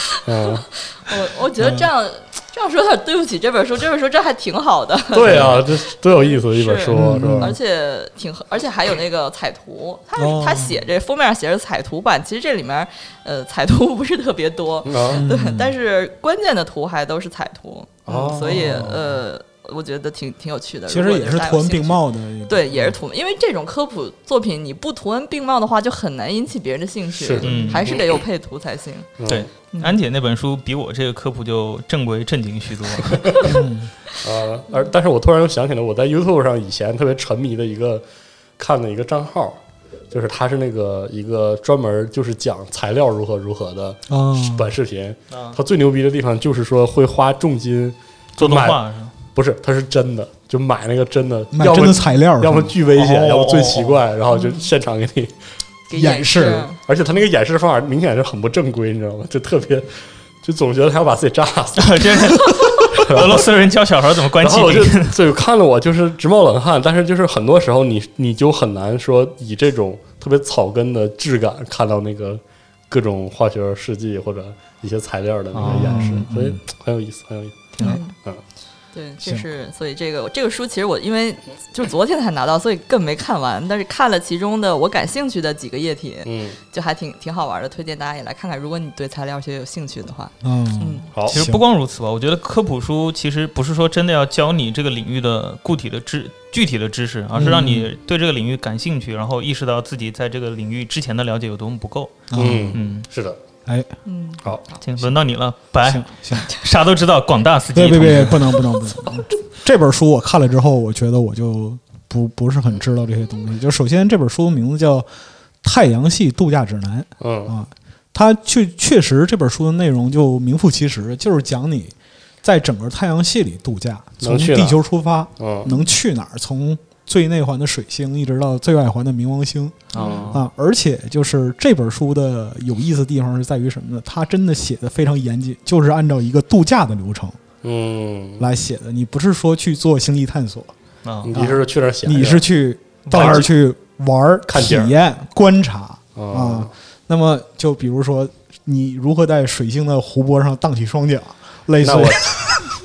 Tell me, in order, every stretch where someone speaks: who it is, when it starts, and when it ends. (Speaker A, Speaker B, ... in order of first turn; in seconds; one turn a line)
Speaker A: 0.2-0.7
Speaker B: 0.9-29.1
Speaker C: 1.6-1.9
Speaker A: 5.1-7.5
Speaker C: 6.9-7.6
Speaker C: 10.2-10.8
Speaker A: 14.8-15.2
Speaker C: 15.1-15.8
Speaker A: 18.1-18.9
Speaker C: 18.5-19.1
Speaker C: 20.9-23.0
Speaker A: 27.1-28.2
Speaker D: 27.4-27.9
Speaker C: 27.4-27.8
Speaker A: 29.2-29.5
Speaker D: 29.3-33.5
Speaker B: 29.7-30.0
Speaker C: 33.4-33.9
Speaker A: 34.2-38.0
Speaker A: 38.6-39.6
Speaker A: 40.1-55.3
Speaker C: 44.1-44.7
Speaker D: 45.3-45.6
Speaker D: 48.4-49.1
Speaker C: 51.5-52.7
Speaker D: 52.9-54.0
Speaker B: 54.3-54.6
Speaker B: 55.9-56.8
Speaker C: 55.9-56.7
Speaker A: 56.9-63.4
Speaker D: 61.8-65.2
Speaker A: 64.4-78.4
Speaker D: 75.5-76.2
Speaker C: 75.6-76.6
Speaker B: 77.8-78.2
Speaker B: 78.9-91.1
Speaker A: 86.2-86.6
Speaker C: 90.4-91.6
Speaker D: 91.3-103.1
Speaker C: 97.3-97.9
Speaker C: 102.3-102.8
Speaker A: 102.3-103.4
Speaker B: 104.1-104.8
Speaker D: 104.8-108.8
Speaker C: 105.8-106.5
Speaker C: 107.8-115.1
Speaker C: 115.6-137.4
Speaker A: 117.2-117.5
Speaker A: 124.2-124.8
Speaker A: 125.4-125.7
Speaker D: 129.9-130.4
Speaker B: 130.0-130.3
Speaker A: 130.0-130.3
Speaker A: 137.6-138.4
Speaker C: 138.4-140.7
Speaker D: 141.0-141.3
Speaker A: 141.2-142.5
Speaker C: 141.3-152.6
Speaker D: 143.1-143.4
Speaker A: 143.1-143.5
Speaker A: 144.5-144.9
Speaker A: 146.2-146.7
Speaker A: 151.8-152.6